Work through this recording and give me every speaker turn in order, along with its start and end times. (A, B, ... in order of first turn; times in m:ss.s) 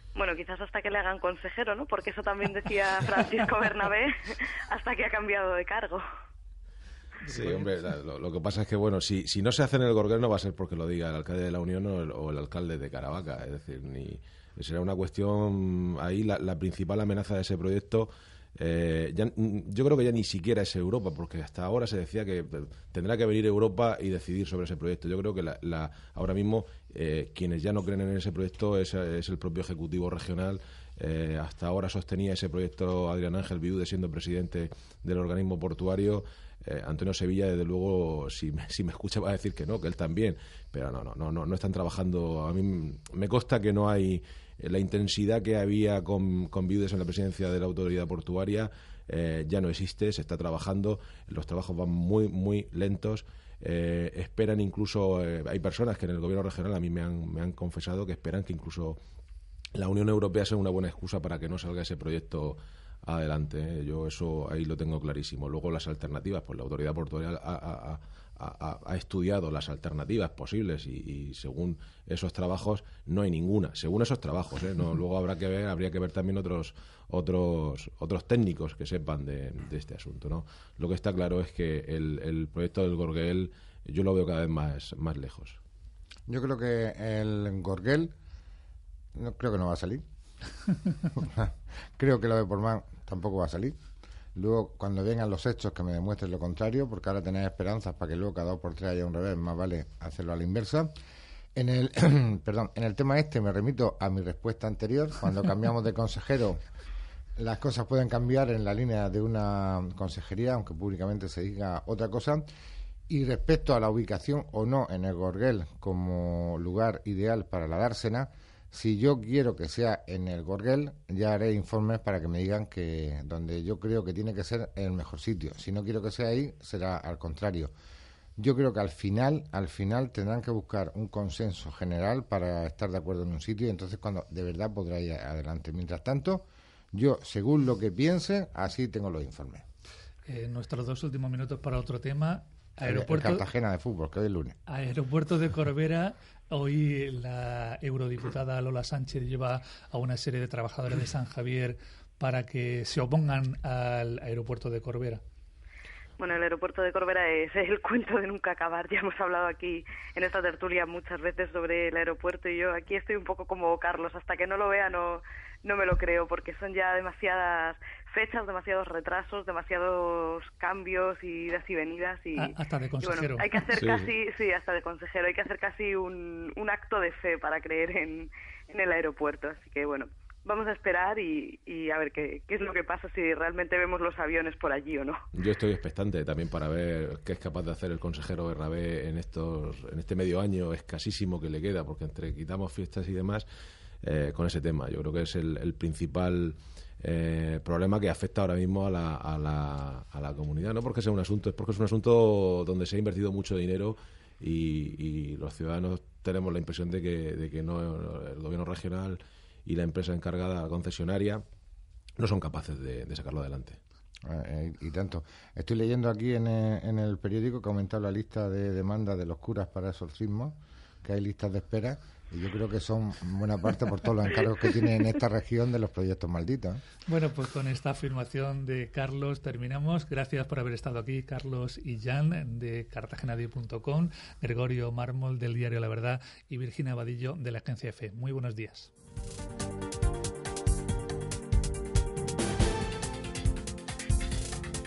0:00.2-0:06.0 A
0:07.3-0:59.0 B
0:07.3-0:07.6 C
0:59.8-1:25.6 B
1:26.3-1:28.1 D
1:29.2-1:30.0 D
1:31.2-1:33.8 D
1:34.4-1:40.9 D
1:41.6-1:46.6 D
1:47.4-1:52.5 D
1:53.1-2:07.7 D
2:08.4-2:19.6 D
2:20.3-2:23.4 C
2:22.8-2:24.6 D
2:24.7-2:35.2 C
2:36.2-3:05.2 A
2:52.4-2:53.5 C
2:53.8-2:54.1 B
3:05.3-3:13.5 B
3:14.0-3:31.4 B
3:32.2-3:33.8 B
3:34.2-3:46.8 D
3:47.1-3:58.9 C